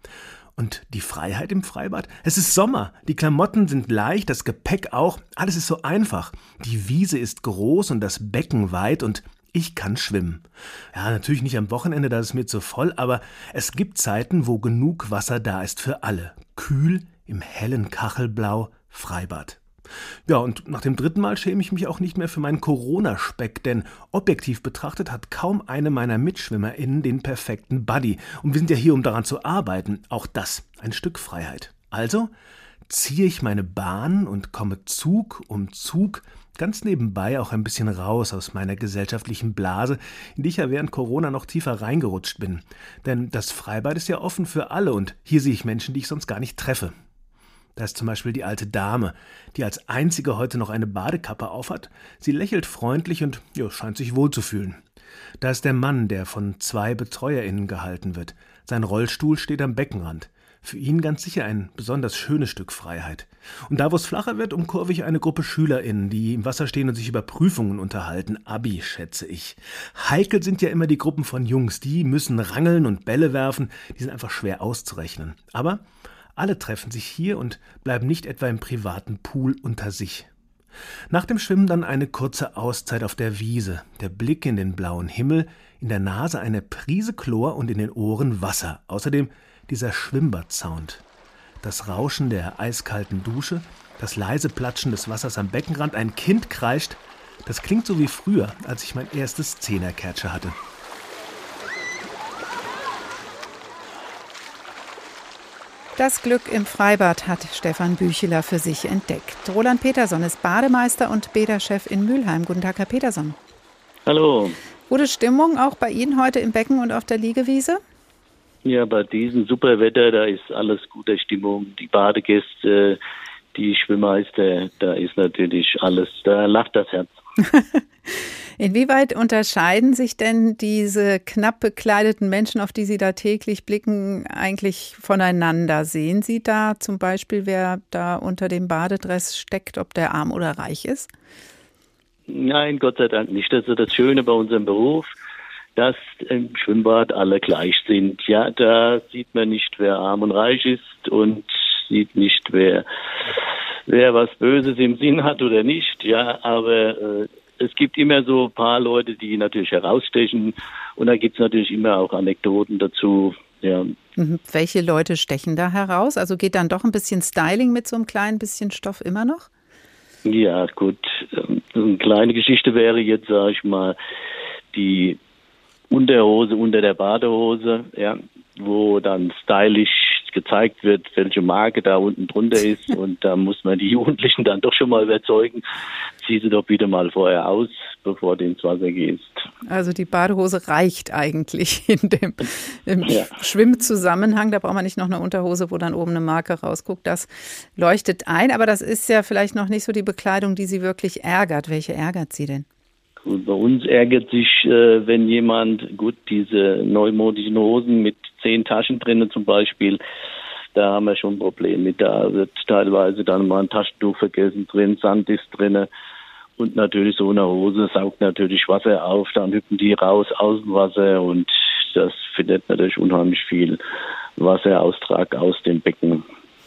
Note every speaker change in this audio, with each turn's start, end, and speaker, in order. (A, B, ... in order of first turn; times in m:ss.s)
0:00.6-0:19.6 A
0:20.3-0:32.3 A
0:32.9-0:46.9 A
0:47.8-0:54.8 A
0:55.4-1:15.8 A
1:16.4-1:20.3 A
1:21.1-1:31.0 A
1:31.6-1:40.6 A
1:46.0-1:53.4 B
1:54.0-1:54.6 C
1:54.9-1:57.8 B
1:58.6-2:03.0 C
2:03.5-2:07.1 C
2:07.5-2:21.1 B
2:22.3-2:25.1 C
2:25.8-2:32.8 C
2:33.9-2:43.9 C
2:44.2-2:49.5 B
2:50.2-2:54.0 C
2:54.7-2:55.2 C
2:55.9-3:05.6 C
3:06.2-3:09.4 C
3:09.7-3:22.6 B
3:23.2-3:30.0 C
3:30.7-3:35.9 C
3:36.6-3:43.8 C
3:44.4-3:46.2 C